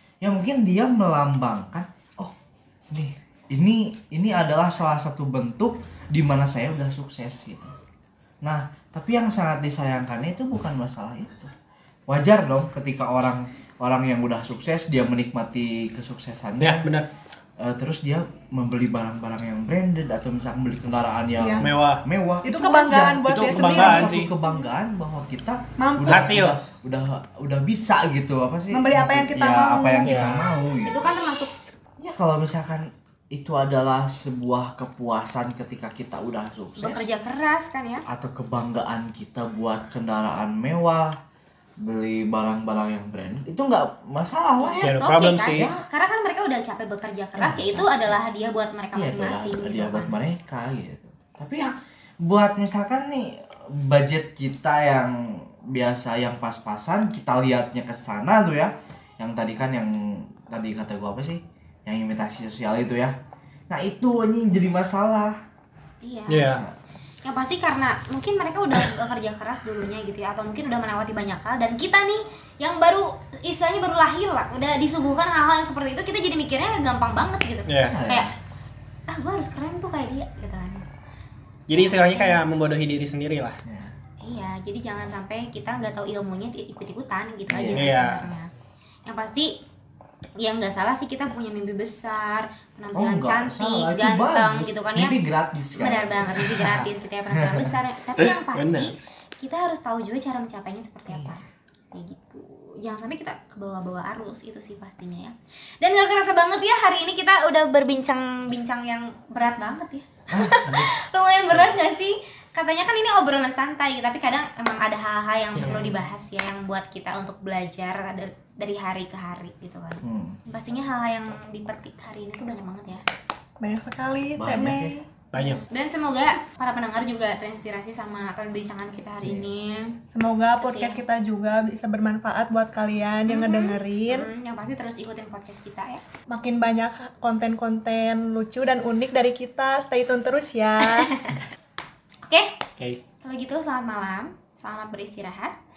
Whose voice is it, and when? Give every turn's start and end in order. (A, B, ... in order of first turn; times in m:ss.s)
0:00.2-0:02.3 A
0:02.9-0:07.7 A
0:08.4-0:11.5 A
0:12.1-0:16.9 A
0:16.6-0:17.1 B
0:17.6-0:31.0 A
0:21.4-0:21.6 C
0:21.6-0:22.0 B
0:22.4-0:24.2 C
0:23.2-0:24.3 B
0:25.8-0:26.2 C
0:26.0-0:26.6 B
0:28.7-0:30.4 C
0:30.0-0:30.4 B
0:30.8-0:31.5 D
0:32.0-0:37.1 A
0:36.8-0:38.0 D
0:38.1-0:41.2 A
0:41.8-0:44.9 A
0:44.6-0:50.1 D
0:44.8-0:45.7 B
0:45.5-0:45.8 A
0:47.4-0:48.0 A
0:48.9-1:03.1 A
1:03.7-1:05.4 A
1:06.0-1:06.5 D
1:06.3-1:06.6 B
1:07.2-1:18.3 D
1:17.7-1:18.0 B
1:17.8-1:18.3 A
1:19.1-1:20.8 D
1:21.7-1:23.6 B
1:21.7-1:22.4 D
1:23.6-1:23.9 A
1:24.2-1:28.5 D
1:27.5-1:27.9 A
1:27.7-1:28.3 B
1:29.1-1:29.6 D
1:30.4-1:35.2 D
1:32.9-1:36.9 A
1:35.8-2:03.0 D
1:37.4-1:37.7 A
1:38.2-1:38.9 B
1:41.1-1:41.4 A
1:50.3-1:50.9 A
1:55.6-1:56.0 B
2:00.0-2:00.4 A
2:03.6-2:05.1 C
2:04.4-2:04.9 A
2:05.3-2:05.6 B
2:05.4-2:10.0 D
2:09.2-2:09.5 A
2:10.1-2:14.3 C
2:10.6-2:11.0 D
2:13.3-2:16.0 D
2:16.3-2:21.1 C
2:21.0-2:21.4 D
2:22.3-2:22.6 D
2:23.2-2:25.5 D